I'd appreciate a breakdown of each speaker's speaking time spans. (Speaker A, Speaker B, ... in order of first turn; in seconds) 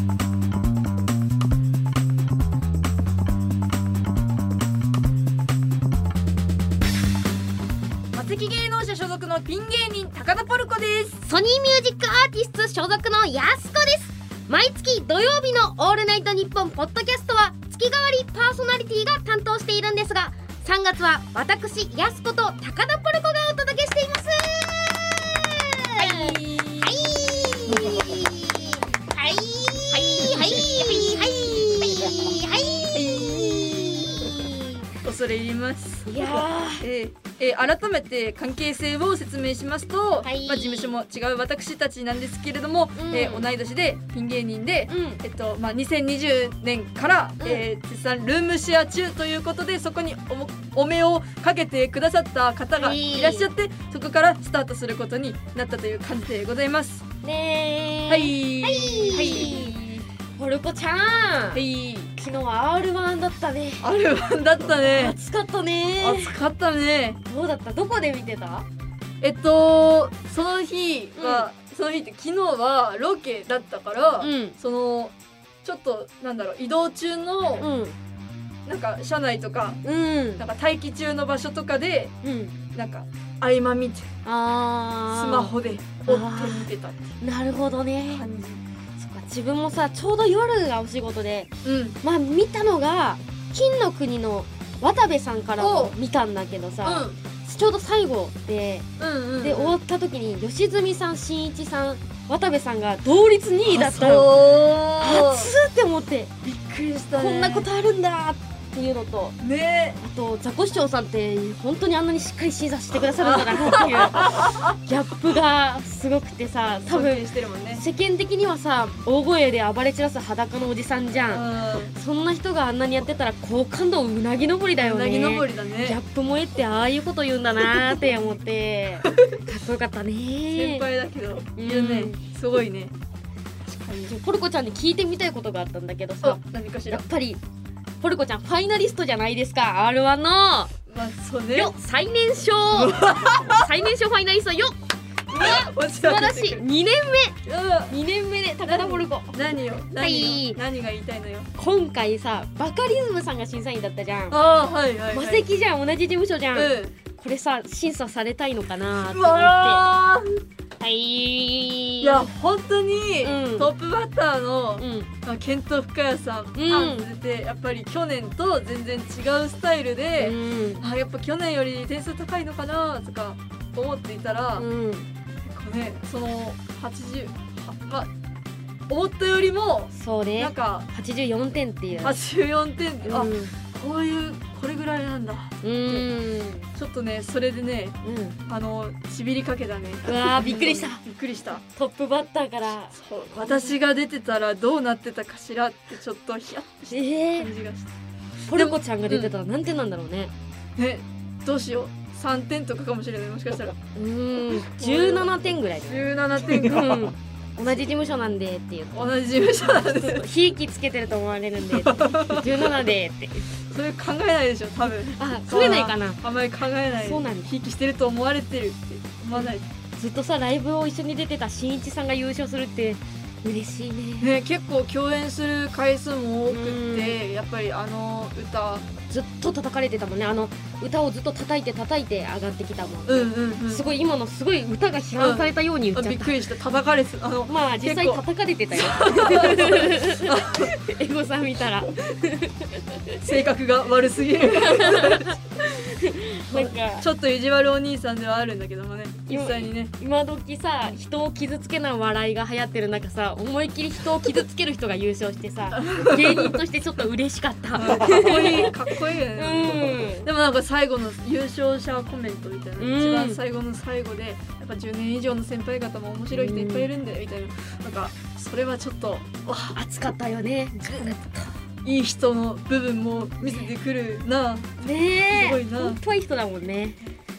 Speaker A: 8.1-11.2, 25.9-26.9, 27.7-28.2, 30.2-30.8, 32.9-34.3, 35.0-57.0, 58.1-59.7, 61.5-62.1, 63.8-65.2, 66.0-67.2, 69.2-77.7, 78.7-79.8, 80.4-82.1, 82.7-84.1, 85.1-87.1, 88.1-88.6, 91.6-92.0, 95.6-95.9, 96.8-97.2, 99.0-99.8, 103.7-105.5, 106.4-107.7, 109.4-110.0, 113.2-114.7, 116.9-117.8, 121.3-121.9, 124.8-126.0, 129.1-129.3, 130.5-132.9, 133.6-134.1, 136.2-137.1, 140.9-141.7, 142.7-143.6, 145.3-146.6, 147.4-147.9, 148.6-151.5, 154.3-155.4, 156.5-156.9, 159.1-160.4, 162.0-174.7, 175.4-178.1, 178.9-180.9, 182.0-186.1, 186.7-191.6, 192.9-197.9, 198.5-199.3, 200.8-203.7, 204.7-205.3, 205.8-207.1, 208.9-210.3, 211.9-212.7, 213.7-219.7, 224.2-228.8, 233.1-233.8, 235.2-238.2, 238.7-240.7, 243.2-245.4, 246.5-249.9, 255.7-256.6, 257.8-269.8, 270.9-271.2, 271.8-274.7, 275.3-276.0
Speaker B: 11.2-34.8, 36.0-36.8, 40.2-40.9, 43.0-43.5, 44.9-45.2, 52.8-53.5, 57.2-61.6, 62.1-63.8, 64.9-66.4, 67.2-68.7, 71.2-71.5, 74.2-74.5, 77.6-78.0, 79.8-80.4, 82.2-82.5, 84.2-88.2, 89.0-98.9, 99.4-104.5, 105.0-106.4, 107.1-109.4, 110.0-130.9, 131.6-132.2, 134.1-137.4, 138.0-140.7, 141.5-144.8, 145.3-147.4, 147.9-150.6, 151.6-154.4, 155.1-159.9, 160.8-162.3, 163.2-163.7, 164.8-165.1, 166.5-167.1, 170.2-170.8, 174.6-175.1, 179.9-182.2, 183.0-183.5, 185.6-186.7, 188.0-188.4, 190.0-191.0, 191.6-193.8, 196.9-197.5, 198.5-200.3, 203.9-213.5, 215.1-216.2, 217.0-217.5, 219.3-224.3, 226.5-227.2, 229.1-236.3, 237.5-243.2, 244.6-247.1, 249.3-258.8, 259.3-260.3, 262.8-263.4, 266.3-266.9, 269.7-271.5, 274.8-277.0